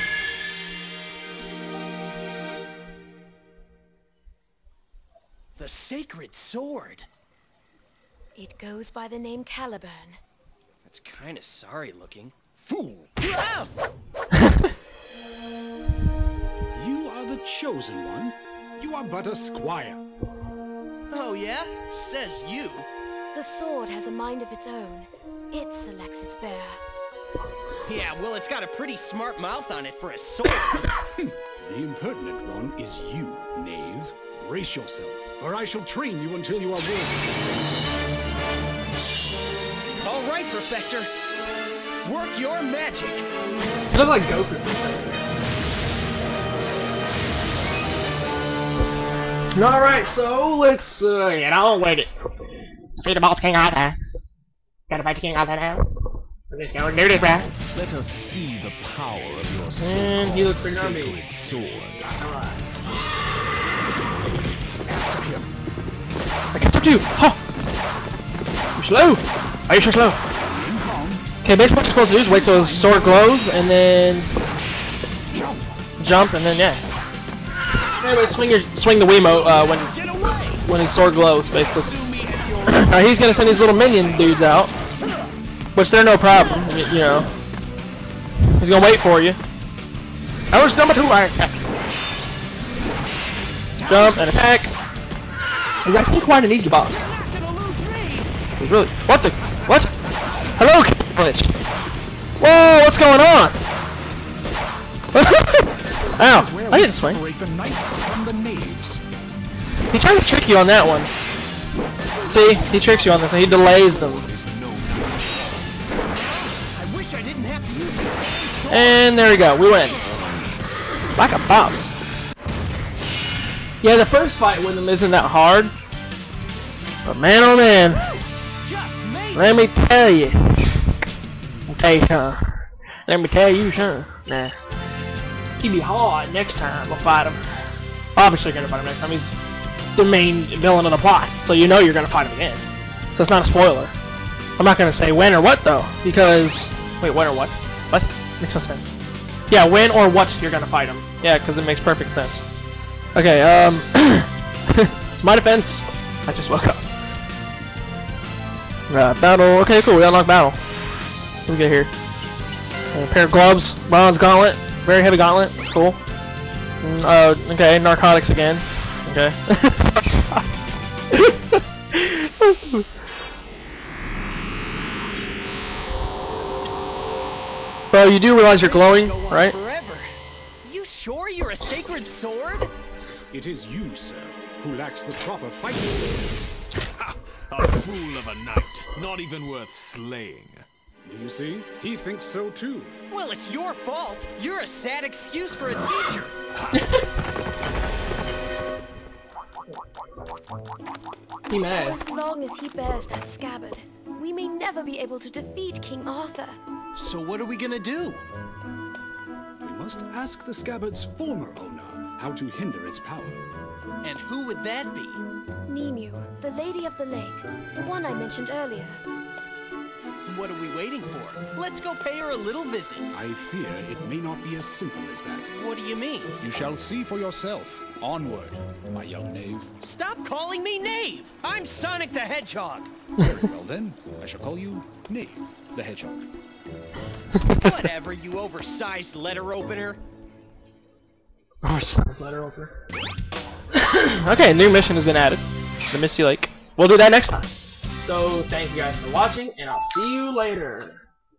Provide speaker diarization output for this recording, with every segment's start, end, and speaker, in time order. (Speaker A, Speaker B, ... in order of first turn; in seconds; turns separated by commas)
Speaker A: 5.6-7.1, Speaker B: 8.4-10.2, Speaker A: 10.8-12.4, Speaker C: 12.6-13.2, Speaker A: 13.2-13.7, Speaker C: 16.8-20.0, Speaker A: 21.1-22.9, Speaker B: 23.3-26.8, Speaker A: 27.9-30.9, Speaker C: 31.2-37.7, Speaker A: 40.0-41.1, Speaker A: 42.0-43.3, Speaker D: 43.9-45.1, Speaker D: 49.5-52.1, Speaker D: 53.0-54.0, Speaker D: 54.9-55.8, Speaker D: 56.5-57.5, Speaker E: 57.6-62.2, Speaker D: 59.8-61.2, Speaker D: 62.2-62.6, Speaker C: 65.1-65.4, Speaker D: 66.5-67.4, Speaker D: 68.8-70.2, Speaker C: 70.3-71.3, Speaker D: 71.4-74.3, Speaker C: 72.0-73.3, Speaker C: 75.3-75.7, Speaker D: 76.0-76.8, Speaker D: 78.0-79.9, Speaker A: 80.0-80.6, Speaker D: 80.6-81.9, Speaker A: 81.9-82.6, Speaker D: 82.7-84.7, Speaker D: 85.8-87.3, Speaker D: 88.5-89.4, Speaker D: 90.5-91.6, Speaker D: 93.9-94.8, Speaker C: 93.9-94.2, Speaker D: 95.8-97.0, Speaker C: 97.1-98.2, Speaker D: 98.6-99.9, Speaker D: 100.6-101.5, Speaker D: 102.4-103.6, Speaker D: 105.1-107.2, Speaker C: 106.2-109.0, Speaker D: 109.9-111.1, Speaker C: 112.3-115.7, Speaker D: 112.3-114.3, Speaker A: 116.2-119.0, Speaker D: 118.7-120.0, Speaker D: 121.2-121.9, Speaker D: 123.8-125.7, Speaker D: 127.0-128.1, Speaker A: 127.9-129.5, Speaker D: 129.3-130.8, Speaker D: 131.7-134.6, Speaker D: 135.6-137.5, Speaker D: 138.2-139.3, Speaker D: 140.0-143.9, Speaker D: 144.6-148.8, Speaker D: 149.5-152.4, Speaker D: 153.2-156.8, Speaker D: 158.9-160.6, Speaker D: 161.5-161.9, Speaker D: 162.9-166.0, Speaker D: 166.8-170.4, Speaker D: 171.1-172.9, Speaker D: 177.9-179.6, Speaker A: 178.5-180.1, Speaker A: 180.6-182.7, Speaker C: 183.3-186.5, Speaker E: 187.1-190.7, Speaker C: 191.0-193.0, Speaker A: 193.1-196.3, Speaker D: 201.5-202.0, Speaker B: 201.8-206.6, Speaker A: 206.9-208.2, Speaker C: 209.6-213.4, Speaker A: 214.0-215.2, Speaker B: 215.7-219.0, Speaker A: 220.3-223.1, Speaker C: 223.1-225.5, Speaker A: 225.6-226.3, Speaker C: 226.4-229.7, Speaker A: 229.8-232.9, Speaker C: 233.2-236.3, Speaker A: 237.5-240.0, Speaker D: 241.6-242.7, Speaker D: 243.7-251.1